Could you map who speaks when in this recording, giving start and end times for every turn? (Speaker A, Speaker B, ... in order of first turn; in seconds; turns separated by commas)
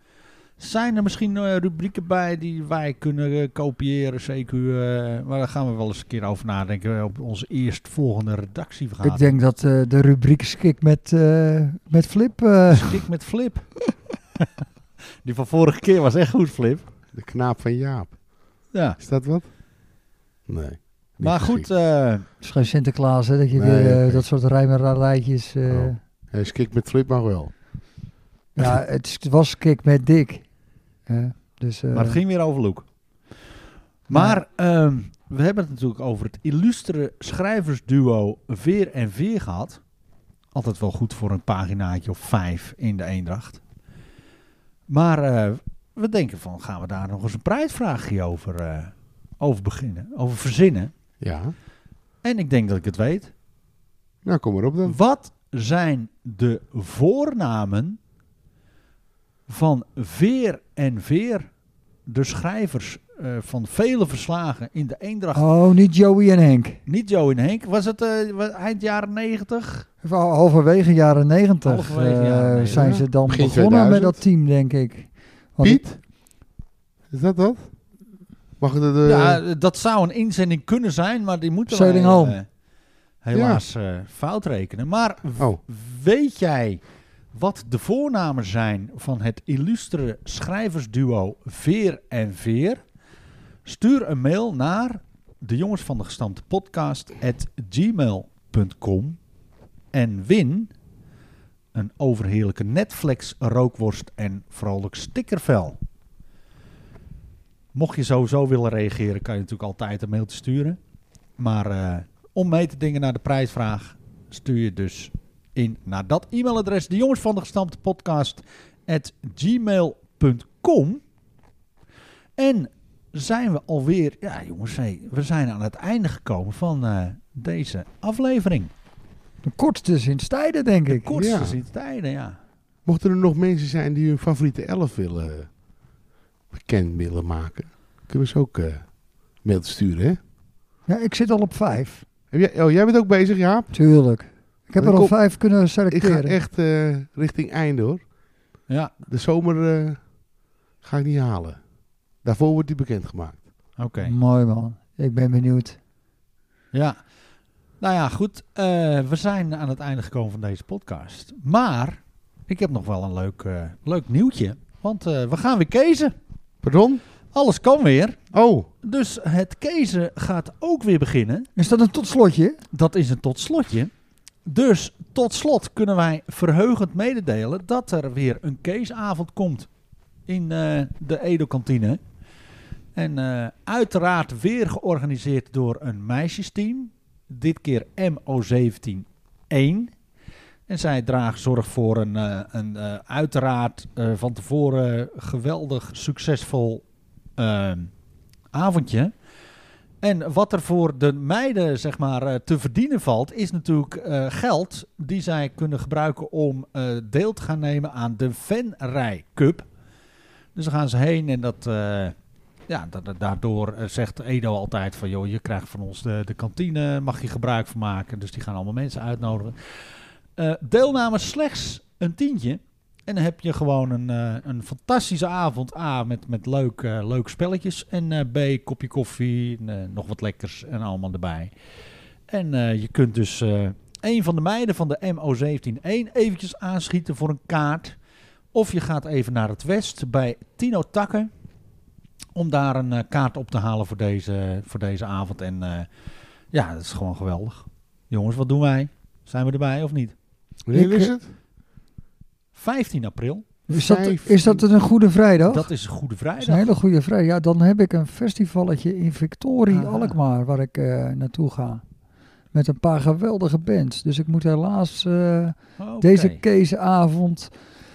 Speaker A: 0.6-9.3, Speaker B: 9.0-13.0, Speaker A: 12.7-13.7, Speaker A: 15.2-16.9, Speaker C: 17.1-18.2, Speaker A: 18.7-19.0, Speaker C: 19.0-19.5, Speaker C: 20.5-21.7, Speaker A: 21.2-22.3, Speaker B: 22.4-26.0, Speaker C: 23.6-24.2, Speaker C: 25.7-27.5, Speaker B: 28.6-30.5, Speaker B: 31.1-32.2, Speaker A: 31.9-32.9, Speaker A: 34.1-39.8, Speaker B: 34.1-34.4, Speaker A: 40.5-43.6, Speaker A: 44.9-50.9, Speaker C: 51.2-51.5, Speaker A: 52.2-53.3, Speaker C: 54.2-55.0, Speaker A: 54.9-58.0, Speaker A: 59.5-61.5, Speaker A: 62.1-65.5, Speaker B: 65.3-66.8, Speaker A: 66.9-69.9, Speaker B: 70.0-75.8, Speaker A: 71.7-73.0, Speaker C: 72.7-74.2, Speaker C: 75.6-76.0, Speaker C: 77.1-77.7, Speaker C: 78.6-79.4, Speaker A: 79.0-82.5, Speaker B: 81.7-82.4, Speaker A: 83.2-86.8, Speaker C: 83.3-83.6, Speaker C: 85.4-85.6, Speaker A: 87.3-92.8, Speaker A: 93.7-99.2, Speaker A: 99.9-100.7, Speaker A: 101.7-105.8, Speaker A: 107.7-110.8, Speaker A: 111.4-121.0, Speaker A: 122.4-128.7, Speaker B: 129.4-131.1, Speaker A: 130.9-132.4, Speaker C: 131.1-131.6, Speaker C: 132.9-135.5, Speaker C: 136.5-138.8, Speaker C: 139.4-140.2, Speaker B: 140.9-142.0, Speaker C: 142.3-143.7, Speaker B: 143.7-146.4, Speaker C: 144.8-145.2, Speaker C: 145.9-148.0, Speaker C: 149.1-150.0, Speaker C: 150.8-151.6, Speaker C: 152.2-153.4, Speaker A: 153.8-154.1, Speaker B: 154.0-155.8, Speaker A: 156.7-157.0, Speaker A: 157.8-166.1, Speaker C: 166.6-167.0, Speaker A: 167.3-168.2, Speaker C: 168.3-168.7, Speaker A: 168.8-171.5, Speaker B: 171.6-172.6, Speaker A: 172.7-173.9, Speaker A: 174.5-179.7, Speaker A: 180.3-182.0, Speaker A: 182.9-189.9, Speaker A: 190.7-196.8, Speaker A: 197.4-197.9, Speaker A: 198.5-199.1, Speaker A: 200.0-209.7, Speaker A: 210.6-212.2, Speaker A: 212.7-231.5, Speaker A: 232.3-238.0, Speaker A: 238.5-241.3, Speaker A: 242.3-245.9, Speaker A: 246.5-250.1, Speaker C: 250.7-251.3, Speaker B: 250.7-251.1, Speaker A: 252.5-253.6, Speaker C: 253.7-254.6, Speaker B: 253.7-255.7, Speaker A: 255.5-256.7, Speaker B: 256.4-261.8, Speaker A: 259.7-260.2, Speaker B: 262.5-267.5, Speaker A: 265.8-266.4